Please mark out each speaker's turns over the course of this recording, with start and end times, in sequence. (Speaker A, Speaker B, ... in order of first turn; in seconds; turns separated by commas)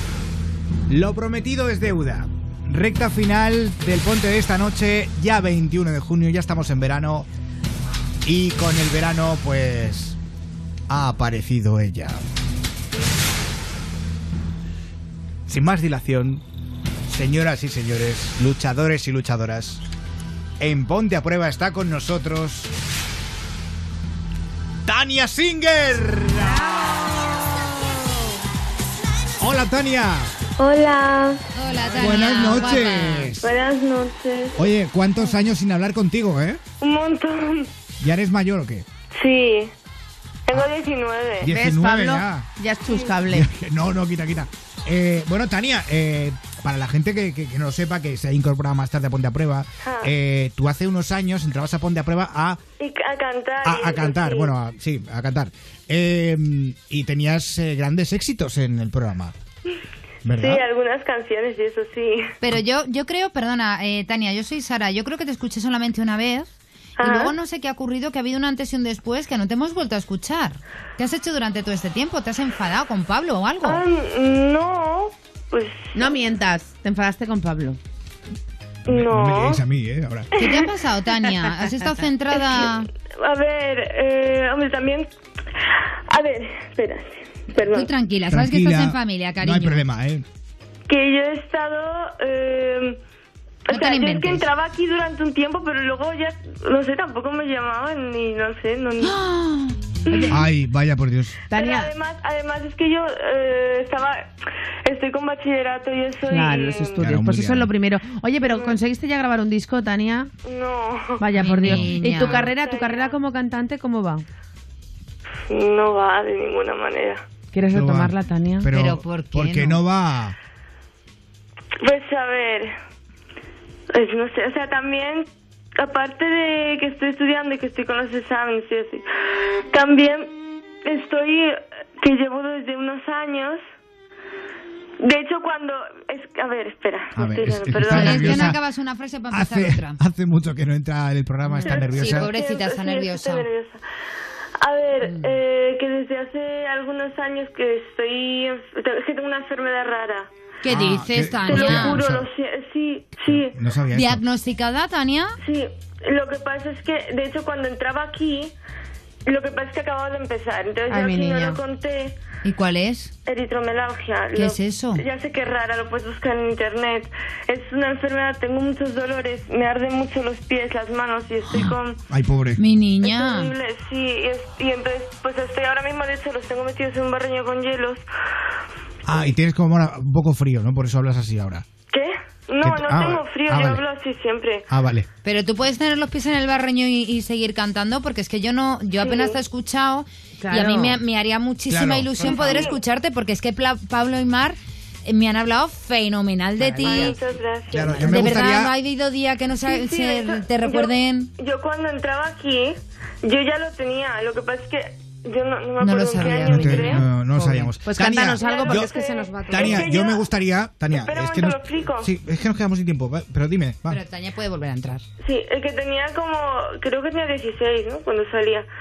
Speaker A: 0.9-7.3, Speaker A: 8.2-10.2, Speaker A: 10.9-12.2, Speaker A: 15.5-16.4, Speaker A: 17.1-19.8, Speaker A: 20.6-22.7, Speaker A: 24.9-26.9, Speaker B: 26.4-27.7, Speaker A: 29.4-30.3, Speaker C: 30.6-31.4, Speaker B: 31.6-33.4, Speaker A: 31.9-33.5, Speaker C: 33.4-34.7, Speaker A: 34.6-36.6, Speaker C: 36.8-37.7, Speaker A: 38.0-38.9, Speaker C: 39.1-39.7, Speaker C: 40.5-41.5, Speaker A: 41.4-42.5, Speaker D: 41.5-43.5, Speaker C: 42.9-43.1, Speaker A: 43.3-52.6, Speaker C: 49.8-50.1, Speaker C: 52.8-54.5, Speaker A: 53.6-59.4, Speaker A: 60.2-60.6, Speaker C: 60.4-62.3, Speaker B: 62.4-73.8, Speaker C: 67.0-67.3, Speaker C: 73.6-76.2, Speaker D: 76.0-77.8, Speaker C: 78.9-79.6, Speaker A: 78.9-80.3, Speaker C: 80.3-80.7, Speaker B: 80.4-82.9, Speaker C: 82.3-85.1, Speaker C: 85.8-87.9, Speaker B: 87.7-89.8, Speaker A: 88.3-90.2, Speaker C: 90.9-93.0, Speaker C: 93.7-99.2, Speaker B: 93.7-94.5, Speaker B: 99.0-99.8, Speaker D: 100.1-100.4, Speaker C: 100.1-100.5, Speaker A: 100.3-101.4, Speaker D: 101.5-101.9, Speaker C: 101.5-104.3, Speaker C: 104.8-107.1, Speaker D: 106.3-110.3, Speaker A: 107.0-107.7, Speaker C: 108.5-108.8, Speaker C: 110.5-111.3, Speaker D: 111.2-114.3, Speaker B: 111.3-112.5, Speaker C: 112.0-113.2, Speaker C: 115.5-117.3, Speaker D: 117.5-118.7, Speaker A: 117.7-120.4, Speaker B: 118.7-119.8, Speaker C: 121.8-122.7, Speaker C: 123.9-129.1, Speaker C: 129.7-130.3, Speaker C: 130.8-133.6, Speaker C: 135.0-138.5, Speaker A: 137.2-138.6, Speaker B: 137.9-140.0, Speaker A: 139.3-142.3, Speaker B: 141.5-143.5, Speaker C: 141.6-143.8, Speaker C: 144.6-150.3, Speaker B: 145.0-145.3, Speaker B: 150.6-152.0, Speaker A: 150.7-152.3, Speaker C: 151.4-153.6, Speaker A: 153.3-154.2, Speaker B: 153.9-155.4, Speaker C: 155.4-158.6, Speaker C: 159.3-162.2, Speaker D: 160.9-161.6, Speaker B: 162.4-163.1, Speaker C: 163.3-172.0, Speaker B: 164.3-165.0, Speaker A: 171.6-172.6, Speaker B: 172.6-173.5, Speaker C: 173.0-178.0, Speaker A: 179.1-181.7, Speaker C: 181.9-184.7, Speaker A: 182.6-183.8, Speaker A: 184.7-185.1, Speaker B: 185.2-197.2, Speaker C: 189.0-189.4, Speaker D: 190.4-191.0, Speaker A: 191.7-192.3, Speaker C: 192.2-192.8, Speaker D: 196.8-197.1, Speaker C: 196.8-198.4, Speaker A: 197.7-198.7, Speaker B: 198.0-201.3, Speaker C: 199.6-207.0, Speaker B: 205.8-207.0, Speaker A: 206.2-208.9, Speaker D: 207.4-209.8, Speaker C: 208.4-210.3, Speaker A: 209.5-214.0, Speaker C: 210.9-212.1, Speaker B: 213.9-215.1, Speaker C: 215.2-218.7